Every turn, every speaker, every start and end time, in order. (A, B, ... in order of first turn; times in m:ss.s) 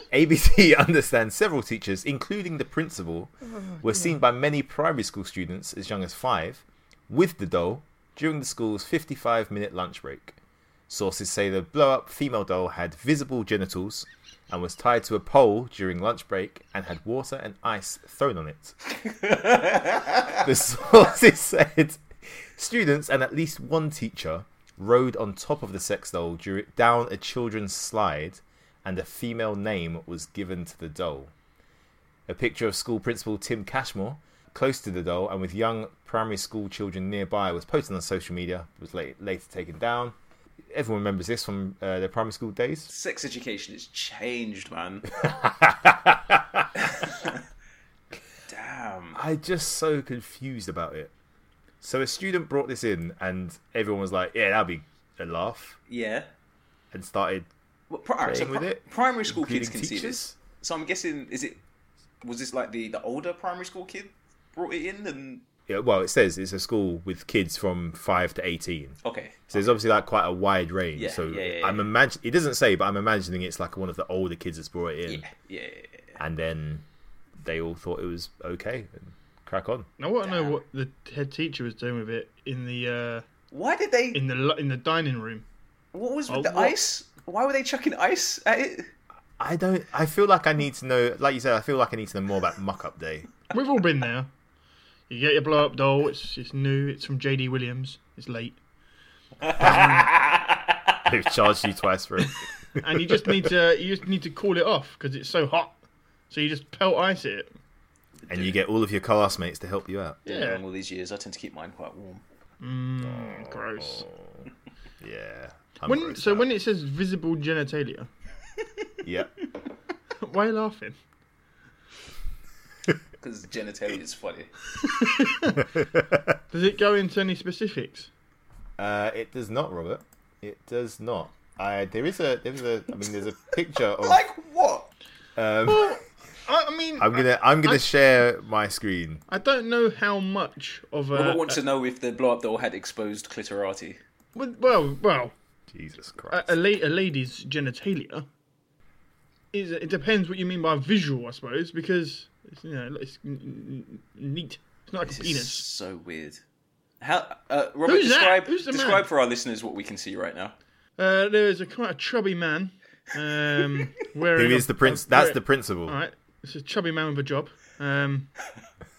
0:00.1-0:10.4 A
0:03.5-0:04.2 B
0:10.9-0:18.8 A
0:19.0-0:20.4 C
0:20.3-0:22.0 A
0:22.5-0:31.3 A
0:32.3-0:40.1 A
0:40.7-0:42.9 A
0:42.9-0:45.2 C
0:45.2-0:46.7 A
0:46.8-0:47.4 C
0:48.5-0:49.2 C
0:49.1-0:51.1 A
0:51.8-0:55.8 A
0:55.9-0:56.3 C
0:56.9-0:57.5 A
0:57.9-1:01.6 C
0:58.2-1:00.4 A
1:02.2-1:05.4 C
1:05.7-1:09.0 A
1:09.0-1:09.8 C
1:09.5-1:15.2 A
1:11.0-1:11.9 C
1:15.1-1:16.2 C
1:16.2-1:16.8 A
1:17.4-1:19.9 A
1:20.0-1:23.2 B
1:20.2-1:20.6 C
1:23.5-1:24.2 C
1:24.1-1:25.4 B
1:25.9-1:28.9 C
1:26.3-1:26.8 B
1:29.4-1:33.3 A
1:33.5-1:34.3 B
1:35.1-1:38.6 B
1:39.4-1:40.8 C
1:39.6-1:40.1 A
1:39.6-1:40.1 B
1:41.0-1:43.5 A
1:42.8-1:45.8 B
1:46.3-1:47.5 B
1:48.3-1:48.5 C
1:48.3-1:50.2 A
1:50.2-1:50.6 B
1:50.3-1:52.2 C
1:52.6-1:54.0 B
1:53.0-1:54.5 A
1:55.0-1:56.5 A
1:55.8-1:58.1 B
1:59.0-1:59.3 A
2:00.2-2:01.0 B
2:03.2-2:04.5 C
2:04.8-2:05.6 B
2:05.6-2:06.4 A
2:06.5-2:08.1 B
2:08.8-2:14.2 A
2:14.0-2:14.9 C
2:15.4-2:15.9 A
2:15.6-2:17.8 B
2:17.0-2:19.2 A
2:19.3-2:21.6 B
2:21.1-2:24.0 C
2:24.3-2:25.3 B
2:25.7-2:26.6 A
2:26.3-2:28.3 B
2:29.5-2:35.6 B
2:35.0-2:36.4 C
2:37.0-2:40.5 C
2:37.8-2:39.1 B
2:41.0-2:48.3 B
2:44.3-2:46.0 A